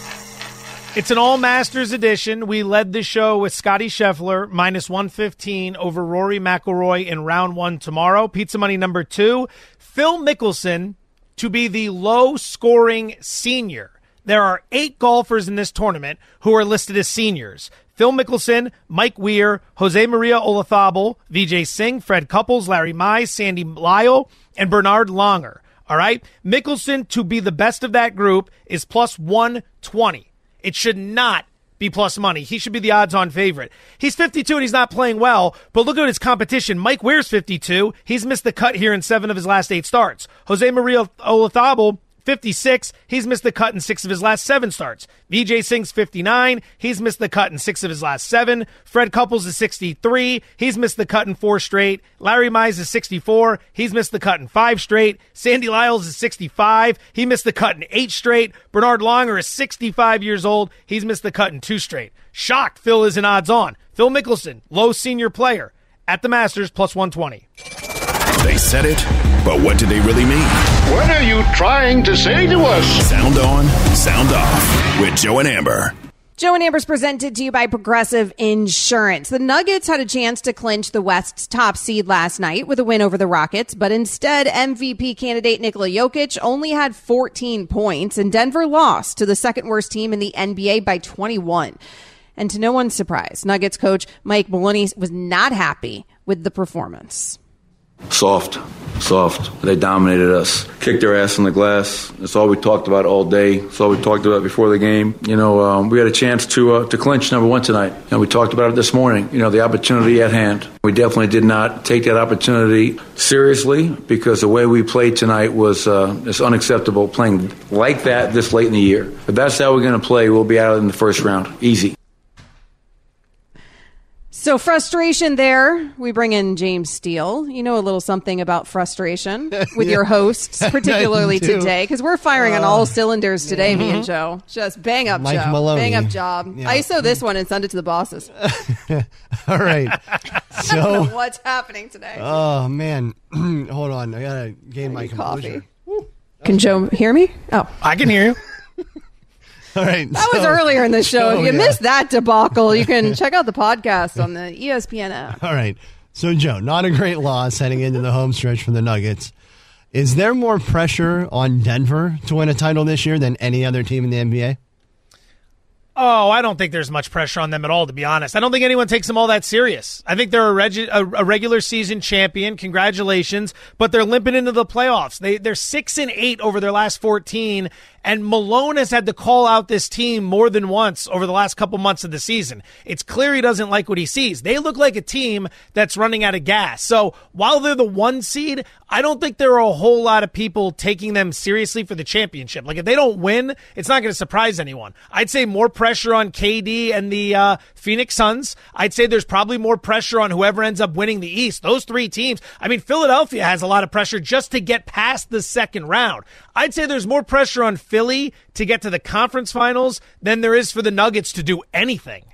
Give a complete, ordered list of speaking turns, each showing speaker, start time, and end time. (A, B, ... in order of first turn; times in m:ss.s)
0:00.9-1:07.4 A
1:08.4-1:10.5 B
1:10.9-1:13.0 C
1:13.0-1:15.9 B
1:16.4-1:31.8 D
1:32.4-1:37.4 D
1:38.1-2:01.9 E
2:04.3-2:18.3 D
2:09.5-2:11.7 F
2:12.4-2:14.0 F
2:13.7-2:14.0 A
2:15.1-2:17.2 F
2:18.4-2:20.0 F
2:20.5-2:21.2 F
2:20.6-2:22.4 D
2:22.2-2:26.8 F
2:24.9-2:25.6 D
2:26.4-2:27.7 D
2:27.8-2:28.4 A
2:29.7-2:31.8 F
2:30.1-2:35.4 D
2:35.4-2:39.3 F
2:39.9-2:44.6 F
2:46.0-3:32.2 A